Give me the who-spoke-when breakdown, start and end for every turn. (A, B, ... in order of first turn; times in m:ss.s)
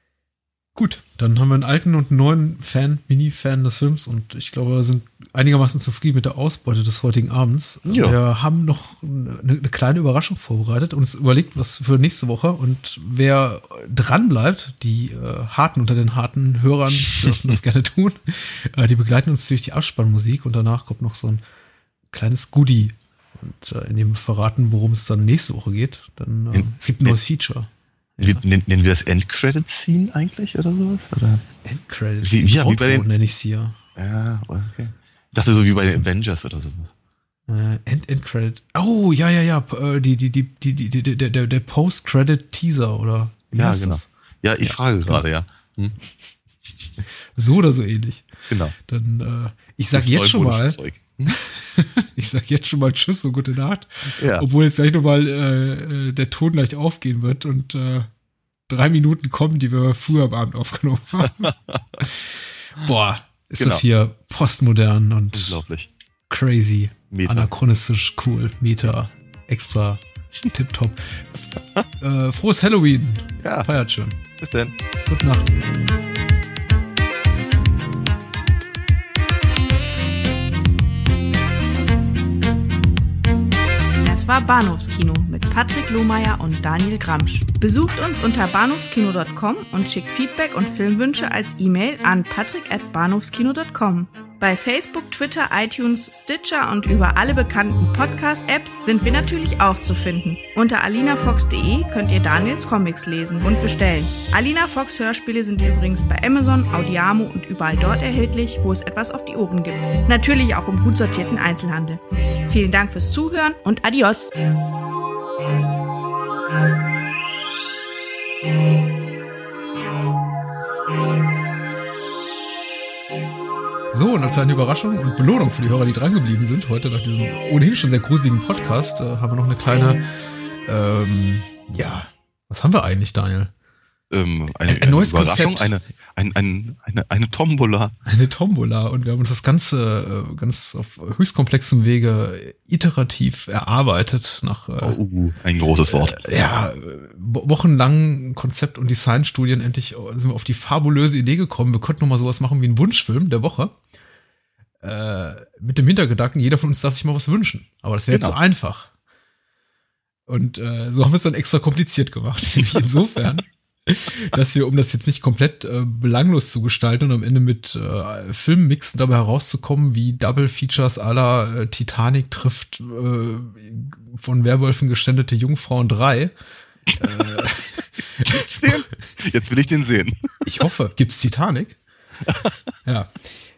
0:00.8-0:21.4 A
0:07.9-0:08.2 B
0:22.1-0:28.4 A
0:26.5-0:27.2 B
0:28.2-0:31.4 B
0:31.6-0:33.8 A
0:32.2-0:33.1 B
0:34.0-0:36.9 B
0:37.5-0:44.1 A
0:43.5-0:46.0 B
0:44.6-0:45.2 A
0:47.4-0:48.3 A
0:48.5-0:48.7 B
0:48.9-0:58.1 A
0:49.9-0:51.4 B
0:54.2-0:54.4 B
0:58.7-1:05.6 A
1:01.3-1:01.8 B
1:03.6-1:03.8 B
1:05.3-1:05.9 B
1:06.3-1:14.2 A
1:07.1-1:07.5 B
1:14.4-1:14.7 B
1:15.0-1:15.6 A
1:24.0-1:54.3 C
2:03.9-2:10.0 A
2:10.6-2:13.5 A
2:14.1-2:17.9 B
2:14.7-2:15.7 A
2:18.1-2:25.0 A
2:24.8-2:26.4 B
2:25.9-2:33.7 A
2:34.8-2:38.9 A
2:38.1-2:38.4 B
2:40.3-2:56.3 A
2:57.0-2:58.8 A
2:58.3-3:00.2 B
3:00.4-3:01.8 A
3:02.8-3:03.2 A